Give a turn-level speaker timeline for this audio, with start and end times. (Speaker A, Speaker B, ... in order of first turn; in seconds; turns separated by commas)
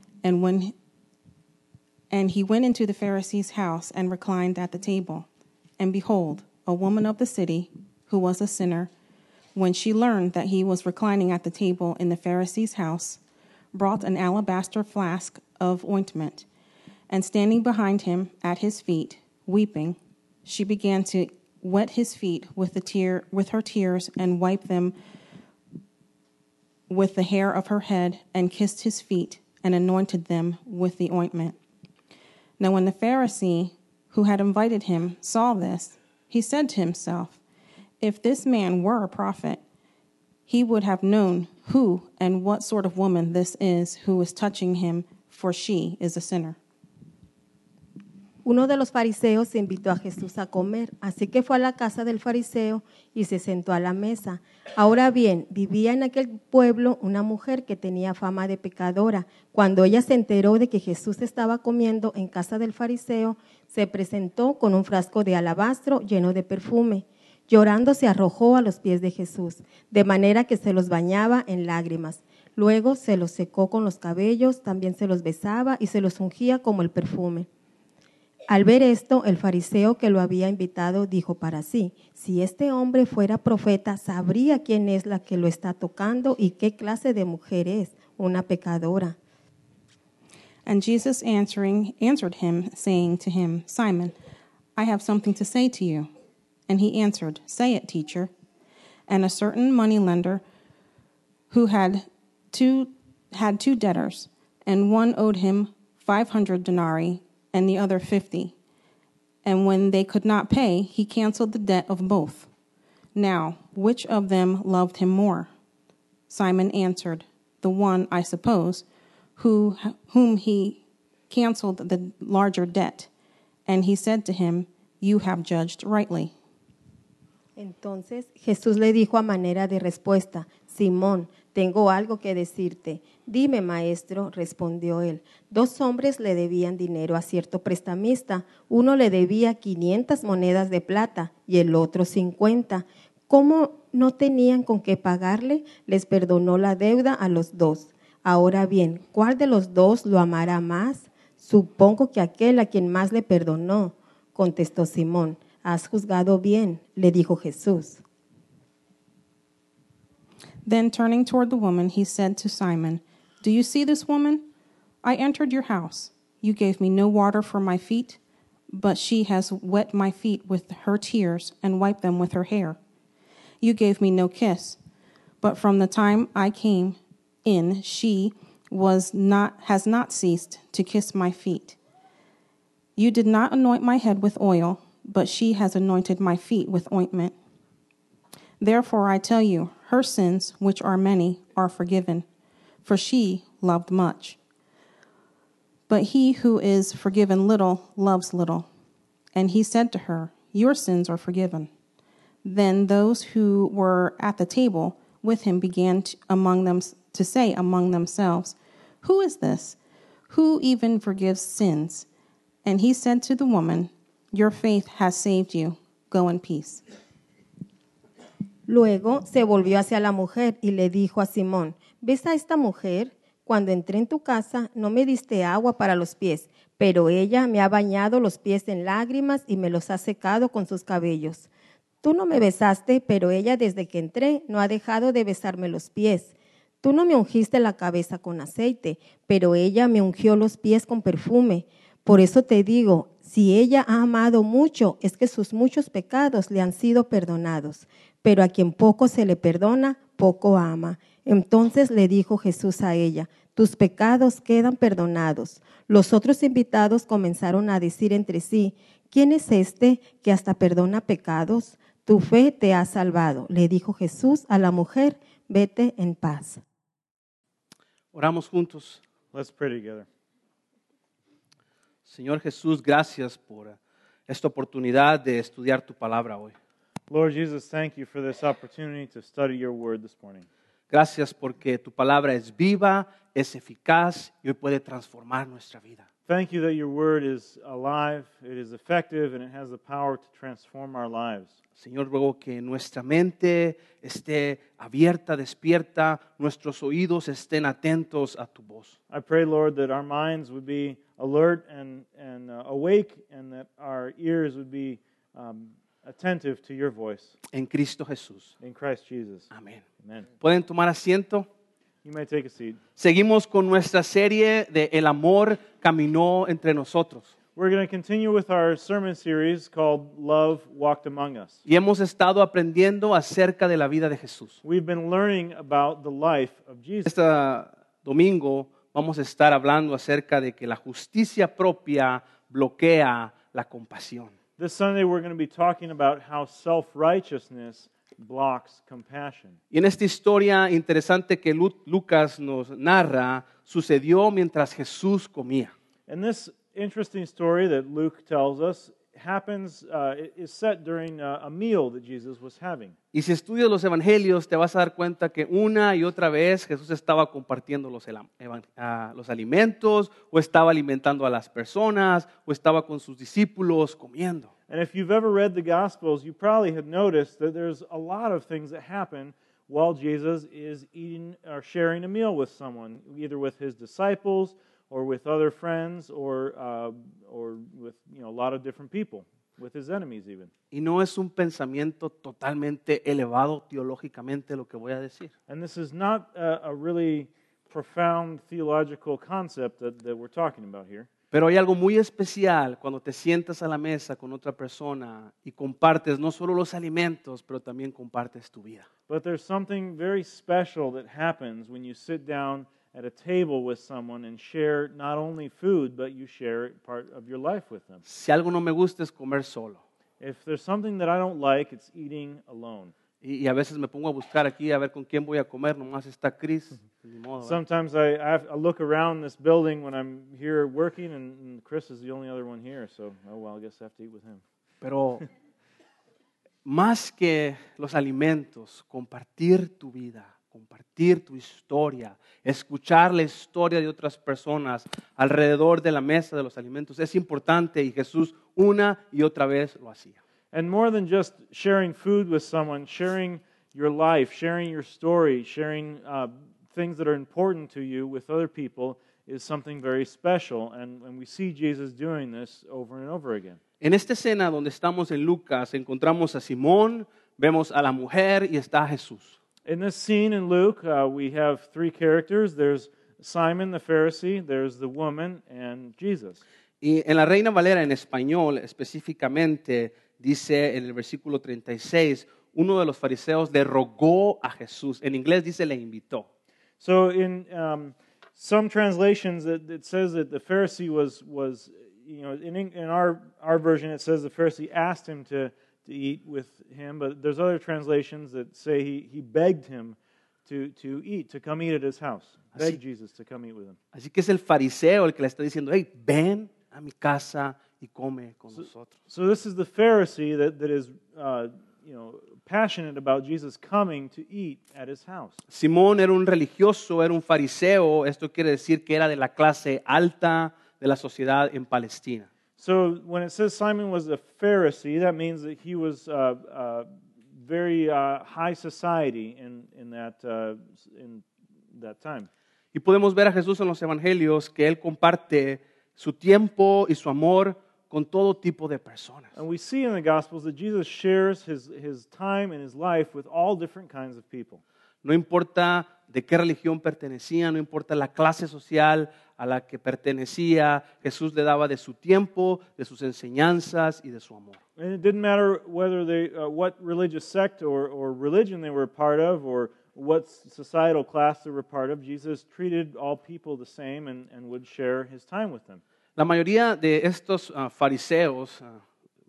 Speaker A: 0.2-0.7, Speaker A: 2.1-5.3, Speaker A: 5.8-8.9, Speaker A: 9.6-13.2, Speaker A: 13.7-16.5, Speaker A: 17.1-24.9, Speaker A: 26.9-31.6, Speaker A: 32.6-37.4, Speaker A: 38.0-39.6, Speaker A: 40.5-46.6, Speaker B: 48.5-77.5, Speaker B: 78.5-89.2, Speaker A: 90.7-94.2, Speaker A: 94.8-96.1, Speaker A: 96.7-98.3, Speaker A: 99.1-100.4, Speaker A: 101.5-108.5, Speaker A: 109.5-112.5, Speaker A: 113.2-115.5, Speaker A: 116.3-118.8, Speaker A: 119.4-123.1, Speaker A: 123.7-126.3, Speaker B: 127.6-158.0, Speaker A: 160.7-164.5, Speaker A: 165.0-168.2, Speaker A: 168.7-172.8, Speaker A: 173.6-174.8, Speaker A: 175.4-181.8, Speaker A: 183.0-187.4, Speaker A: 188.6-192.3, Speaker A: 192.8-194.4, Speaker A: 195.9-198.7, Speaker A: 199.3-201.7, Speaker A: 202.4-209.8, Speaker A: 210.3-212.1, Speaker A: 212.6-216.8, Speaker B: 218.7-231.5, Speaker B: 232.0-266.6, Speaker C: 268.1-269.0, Speaker D: 269.3-270.1, Speaker C: 272.1-273.8, Speaker C: 274.3-276.5, Speaker D: 277.1-280.5, Speaker C: 280.9-286.1, Speaker D: 286.3-291.6, Speaker C: 291.8-299.0, Speaker D: 299.1-307.4, Speaker C: 307.5-308.5, Speaker D: 308.6-310.3, Speaker C: 309.5-309.8, Speaker C: 310.4-311.5, Speaker D: 312.0-312.8, Speaker C: 313.0-317.3, Speaker D: 317.6-321.6, Speaker C: 321.7-324.6, Speaker D: 324.6-327.1, Speaker C: 327.1-334.3, Speaker D: 334.6-339.6, Speaker C: 339.7-345.7, Speaker D: 346.1-352.9, Speaker C: 353.1-364.5, Speaker D: 364.7-380.5, Speaker C: 380.7-385.3, Speaker D: 385.5-391.1, Speaker C: 391.3-398.9, Speaker D: 399.1-408.0, Speaker C: 408.1-409.8, Speaker D: 410.2-412.9, Speaker C: 413.2-417.6, Speaker D: 417.4-424.4, Speaker C: 424.8-425.2, Speaker C: 426.6-440.2, Speaker D: 440.5-453.6, Speaker C: 453.8-459.4, Speaker D: 459.6-466.4, Speaker C: 466.8-476.3, Speaker D: 476.8-493.8, Speaker C: 493.9-498.9, Speaker D: 498.6-505.4, Speaker C: 505.5-512.3, Speaker D: 512.6-522.3, Speaker C: 522.7-529.3, Speaker D: 529.4-534.6, Speaker C: 535.0-544.6, Speaker D: 544.8-555.8, Speaker C: 556.2-558.8